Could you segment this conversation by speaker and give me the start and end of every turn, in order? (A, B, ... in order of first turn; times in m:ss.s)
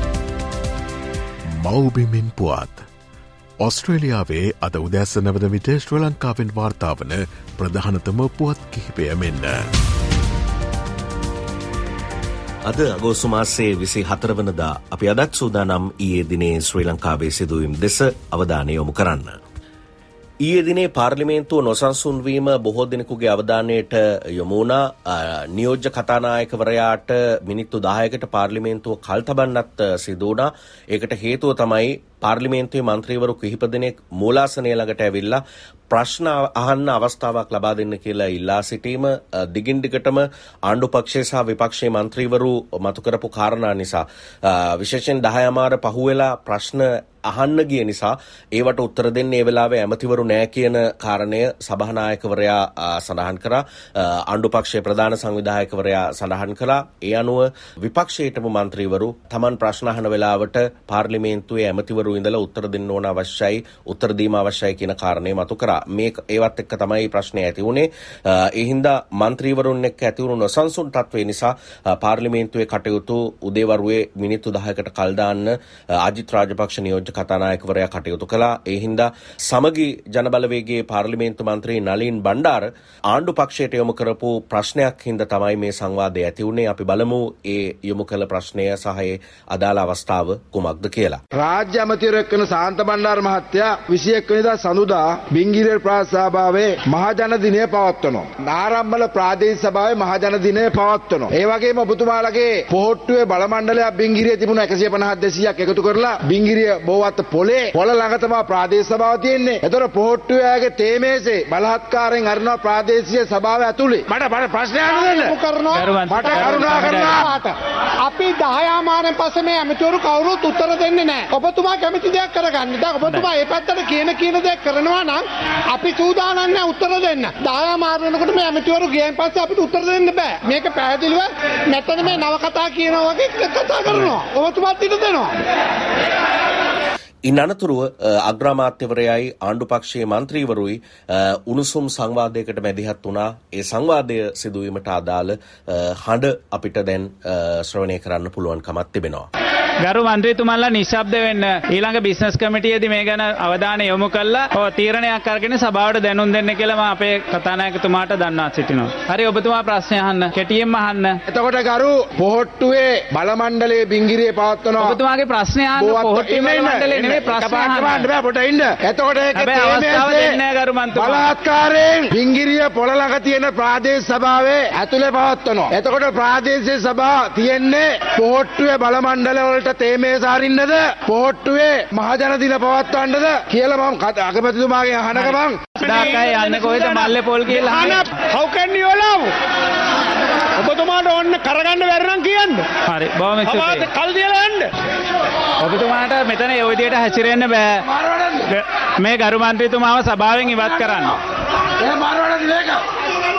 0:01.6-0:02.8 A
0:03.6-0:09.6 A
0:12.7-0:19.4 B
0:20.4-1:31.2 B
1:31.3-1:55.4 C
1:54.9-2:15.4 D
1:55.8-1:57.1 E
1:56.1-1:57.3 C
2:17.3-2:29.3 B
2:29.8-2:41.2 E
2:41.3-2:45.0 C
2:44.8-2:48.1 E
2:45.7-3:05.8 C
2:49.4-2:51.2 E
3:05.9-3:08.0 E
3:12.8-3:13.9 E
3:15.6-3:17.8 E
3:18.5-3:21.2 E
3:21.8-3:22.8 C